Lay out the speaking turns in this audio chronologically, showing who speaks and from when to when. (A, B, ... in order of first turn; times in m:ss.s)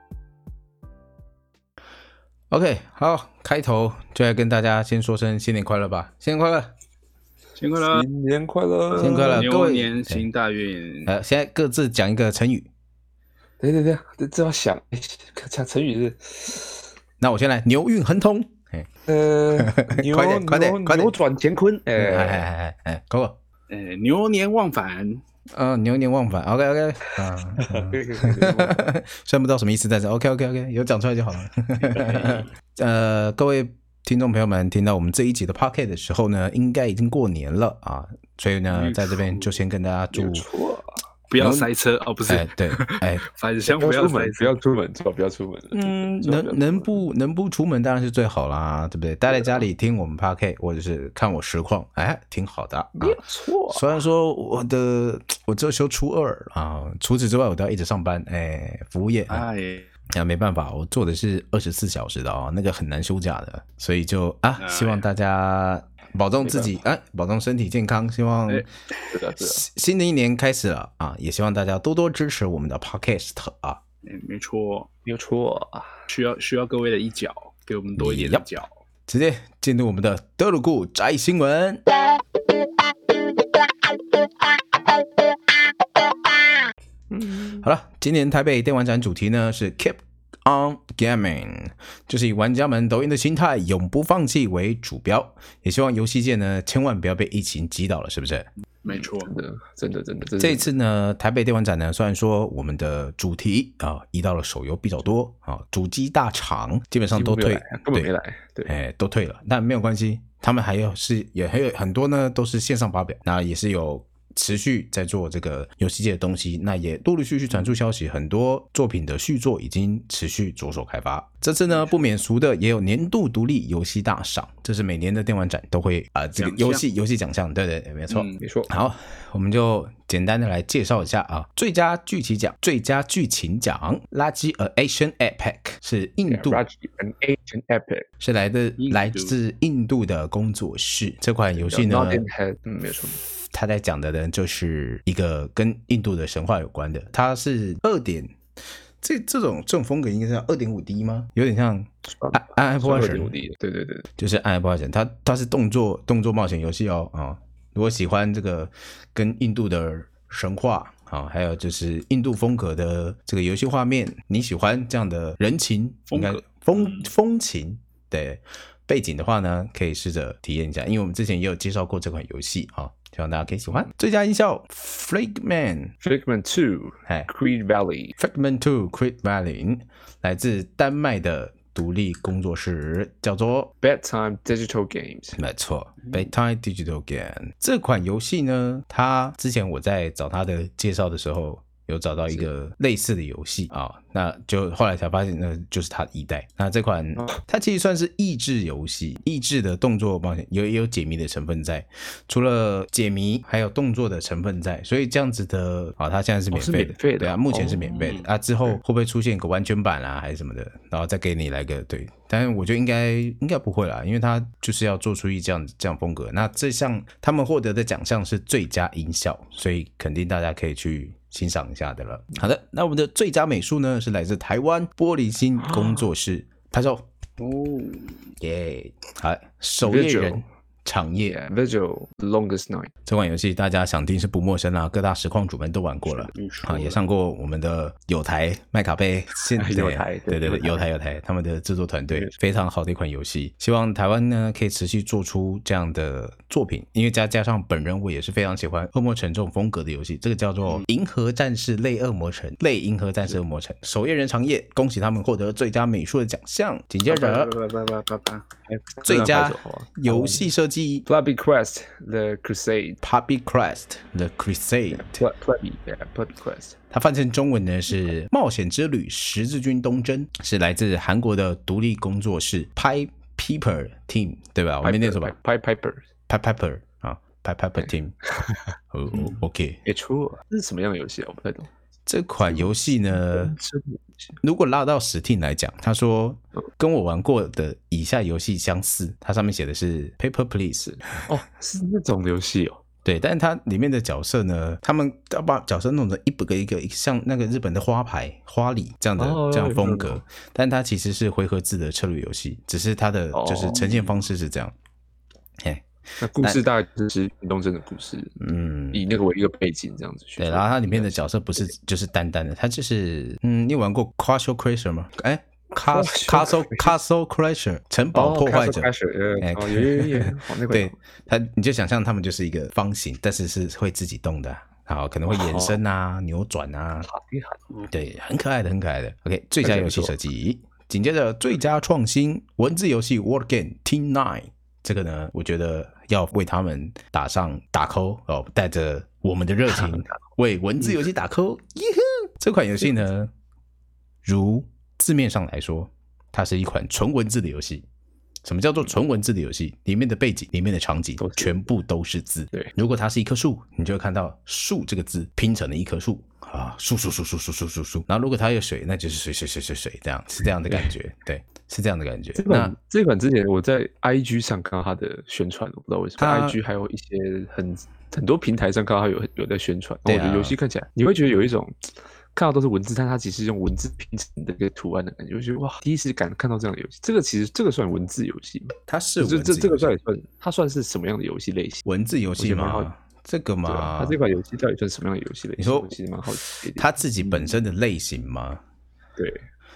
0:02.5-0:06.7 A
0:07.6-0:08.0 B
0:07.8-0:09.5 C
0:08.9-0:11.1 B
0:09.0-0:10.3 A
0:11.1-0:12.7 A
0:13.6-0:16.8 C
0:17.2-0:18.9 A
0:19.1-0:22.5 C
0:19.6-0:21.1 A
0:22.0-0:23.4 A
0:23.7-0:25.2 B
0:25.5-0:40.4 A
0:27.6-0:28.9 C
0:31.9-0:32.5 B
0:38.7-0:39.6 B
0:40.1-0:41.0 C
0:41.3-0:44.6 B
0:41.4-0:41.7 A
0:42.3-0:43.2 A
0:43.7-0:46.9 C
0:45.7-0:53.2 A
0:49.3-0:49.6 C
0:53.0-0:54.0 C
0:53.7-0:59.5 A
0:59.3-0:59.9 B
1:00.1-1:08.7 A
1:04.6-1:05.1 B
1:06.4-1:06.7 C
1:08.5-1:09.1 B
1:09.1-1:09.6 C
1:09.4-1:13.8 A
1:14.0-1:14.9 B
1:15.1-1:16.0 C
1:16.1-1:18.7 B
1:18.0-1:18.5 A
1:19.1-1:21.8 A
1:27.1-1:27.7 C
1:27.6-1:38.5 A
1:38.8-1:39.3 B
1:38.9-1:40.7 C
1:40.4-1:48.1 A
1:47.1-1:48.7 C
1:48.7-2:16.6 A
2:06.4-2:06.8 B
2:08.1-2:08.4 B
2:08.4-2:08.7 C
2:16.3-2:18.1 C
2:18.2-2:22.2 A
2:18.8-2:19.4 B
2:21.6-2:23.2 C
2:23.5-2:28.4 A
2:29.0-2:33.3 A
2:32.1-2:34.1 C
2:34.2-2:55.9 A
2:46.1-2:47.0 B
2:56.0-2:58.2 C
2:58.2-3:03.7 A
3:03.8-3:05.4 C
3:05.4-3:47.0 A
3:26.5-3:27.9 C
3:27.8-3:28.3 B
3:45.6-3:46.1 C
3:47.4-3:48.3 B
3:48.4-3:51.3 A
3:49.8-3:50.4 C
3:51.2-3:52.9 C
3:53.1-4:17.6 A
3:56.1-3:57.0 B
3:59.6-4:00.9 C
4:02.1-4:02.4 C
4:17.1-4:18.4 B
4:18.7-4:20.5 C
4:19.0-4:21.0 A
4:21.1-4:23.0 C
4:23.0-4:25.2 A
4:24.9-4:26.8 C
4:26.9-4:35.3 A
4:34.8-4:36.0 C
4:36.3-4:38.2 A
4:37.8-4:38.6 C
4:38.9-4:39.8 A
4:39.8-4:41.7 C
4:42.1-4:43.5 A
4:42.4-4:44.4 C
4:44.4-4:50.8 A
4:50.8-4:52.8 C
4:53.0-5:04.7 A
4:59.2-5:00.2 C
5:03.3-5:04.2 C
5:05.6-5:05.9 A
5:06.2-5:08.3 C
5:08.4-5:09.0 A
5:08.9-5:11.1 C
5:10.4-5:18.9 A
5:15.8-5:16.9 C
5:18.1-5:21.0 C
5:19.4-5:27.1 A
5:25.3-5:25.8 C
5:27.1-5:27.6 C
5:27.9-5:43.3 A
5:29.6-5:30.2 C
5:39.7-5:40.2 C
5:44.2-5:47.8 A
5:48.4-6:02.7 A
5:51.2-5:51.6 C
6:00.7-6:00.9 C
6:02.4-6:21.9 C
6:06.2-6:06.6 A
6:10.1-6:10.6 A
6:18.9-6:20.0 A
6:21.8-6:24.2 A
6:22.4-6:22.9 C
6:23.7-6:27.0 C
6:25.6-6:25.9 A
6:26.8-6:28.6 A
6:29.2-6:29.4 C